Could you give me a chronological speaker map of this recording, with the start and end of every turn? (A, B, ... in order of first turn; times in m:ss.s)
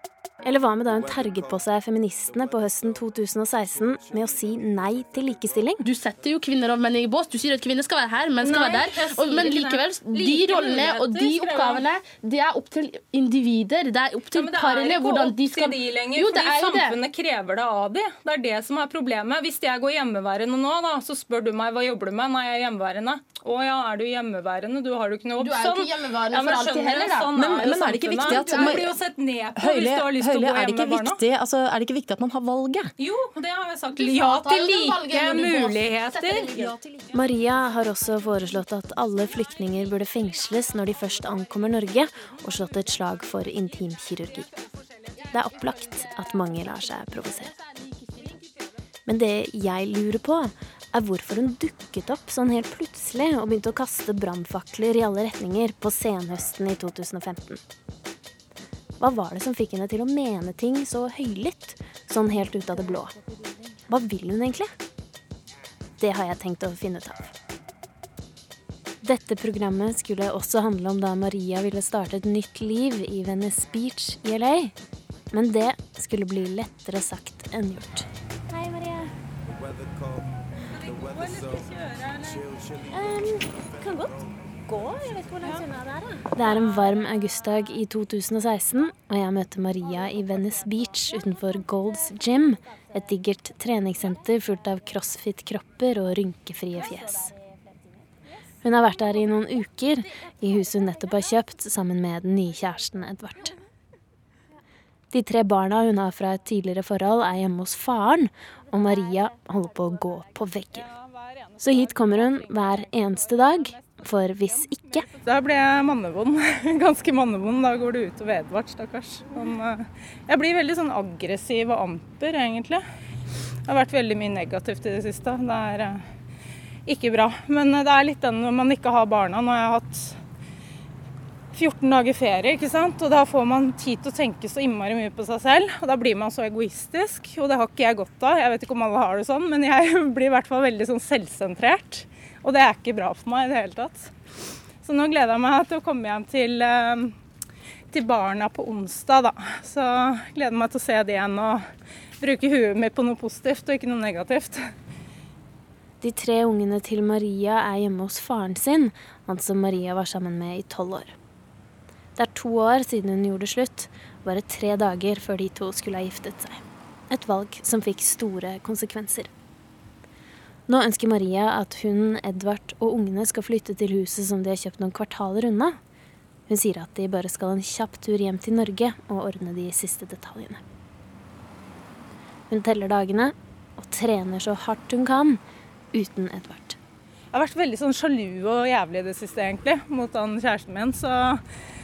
0:00.4-0:05.9 A
0:05.8-0:17.0 B
0:08.4-0:11.9 C
0:14.3-0:31.2 C
0:25.4-0:28.9 B
0:27.4-0:28.9 D
0:29.6-0:32.9 D
0:33.0-0:36.7 C
0:34.0-0:37.1 B
0:37.1-0:44.5 A
0:45.3-0:47.5 A
0:48.0-0:48.2 B
0:49.1-0:57.6 A
0:59.0-1:03.2 A
1:03.8-1:04.7 A
1:06.0-1:07.3 A
1:09.0-1:14.7 A
1:15.3-1:19.1 A
1:20.6-1:22.6 C
1:22.9-1:37.3 A
1:38.6-1:43.5 A
1:45.1-1:50.9 A
1:50.8-2:02.8 C
1:51.6-1:55.1 A
2:03.7-2:06.0 C
2:06.9-2:10.2 C
2:11.5-2:24.1 C
2:24.8-2:27.2 C
2:27.9-2:31.6 C
2:32.2-2:34.7 C
2:36.0-2:41.2 A
2:42.2-2:49.3 A
2:50.7-2:55.8 A
2:56.5-3:00.6 A
3:02.5-3:05.4 A
3:05.9-3:06.8 A
3:07.3-3:11.4 C